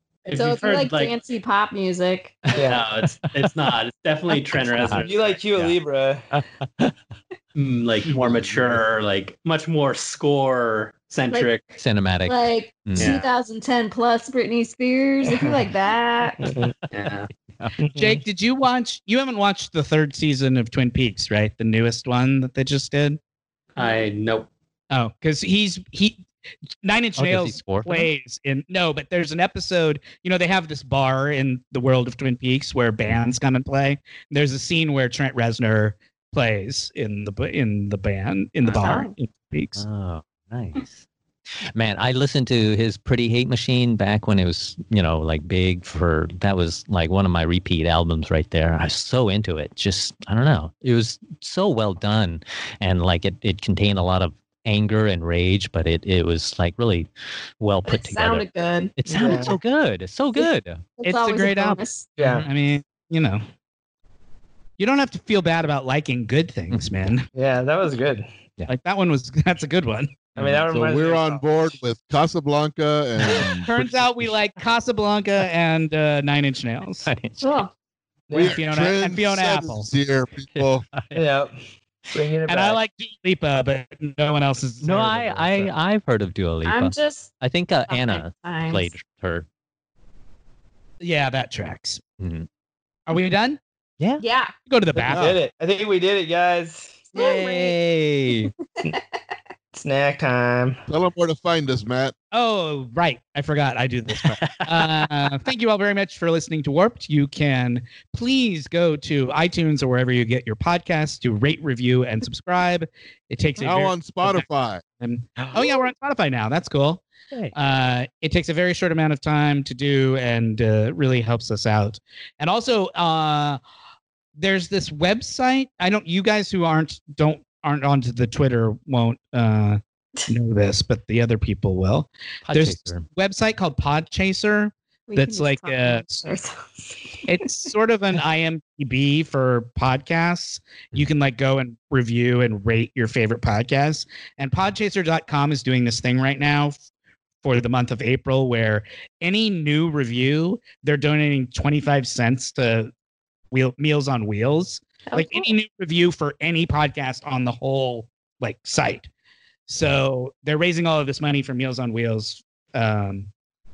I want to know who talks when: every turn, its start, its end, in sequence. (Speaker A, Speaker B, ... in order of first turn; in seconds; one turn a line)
Speaker A: 0.2-1.1
Speaker B: 0.3-2.6
Speaker C: 2.5-3.7
Speaker D: 2.5-2.9
Speaker A: 2.6-5.4
Speaker C: 4.3-5.8
Speaker D: 4.9-6.2
Speaker C: 6.3-6.9
Speaker A: 7.5-11.7
Speaker C: 8.1-8.6
Speaker C: 11.8-13.2
Speaker B: 12.2-16.4
Speaker A: 12.9-13.3
Speaker D: 15.2-15.5
Speaker D: 16.4-16.7
Speaker A: 16.9-17.3
Speaker C: 17.0-17.8
Speaker D: 17.8-18.2
Speaker E: 17.9-23.2
Speaker A: 23.8-24.5
Speaker E: 24.9-26.2
Speaker E: 26.8-39.8
Speaker C: 27.2-28.1
Speaker B: 38.6-39.1
Speaker C: 39.8-41.0
Speaker C: 41.7-60.8
Speaker B: 57.8-59.5
Speaker D: 59.0-59.5
Speaker B: 60.4-62.1
Speaker E: 61.0-61.8
Speaker D: 62.2-62.5
Speaker E: 62.4-63.4
Speaker E: 64.8-67.2
Speaker C: 66.7-67.0
Speaker D: 67.3-68.3
Speaker E: 68.7-70.2
Speaker C: 70.3-70.6
Speaker D: 70.4-71.4
Speaker F: 70.6-73.7
Speaker C: 73.2-74.1
Speaker E: 73.6-77.1
Speaker C: 77.0-77.5
Speaker B: 77.4-77.7
Speaker D: 78.3-78.6
Speaker F: 78.3-80.8
Speaker E: 78.3-79.9
Speaker C: 80.5-81.2
Speaker D: 81.1-81.6
Speaker D: 82.1-82.8
Speaker E: 82.5-85.7
Speaker C: 84.8-89.5
Speaker B: 86.6-87.3
Speaker B: 87.9-88.9
Speaker E: 91.0-92.0
Speaker C: 92.2-92.5
Speaker E: 93.1-93.6
Speaker B: 94.2-94.5
Speaker E: 94.7-95.4
Speaker D: 95.1-97.1
Speaker F: 95.1-95.4
Speaker B: 97.1-97.8
Speaker C: 97.1-98.5
Speaker B: 98.3-99.0
Speaker D: 99.7-100.8
Speaker F: 100.9-102.1
Speaker E: 102.3-114.5
Speaker C: 104.1-105.3
Speaker F: 113.6-114.8
Speaker E: 115.0-123.6
Speaker C: 115.4-115.8
Speaker E: 124.3-136.3
Speaker C: 132.4-133.0
Speaker B: 135.1-137.3
Speaker E: 137.2-146.8
Speaker E: 147.4-152.9
Speaker E: 153.5-159.1
Speaker B: 155.1-155.5
Speaker E: 159.7-163.3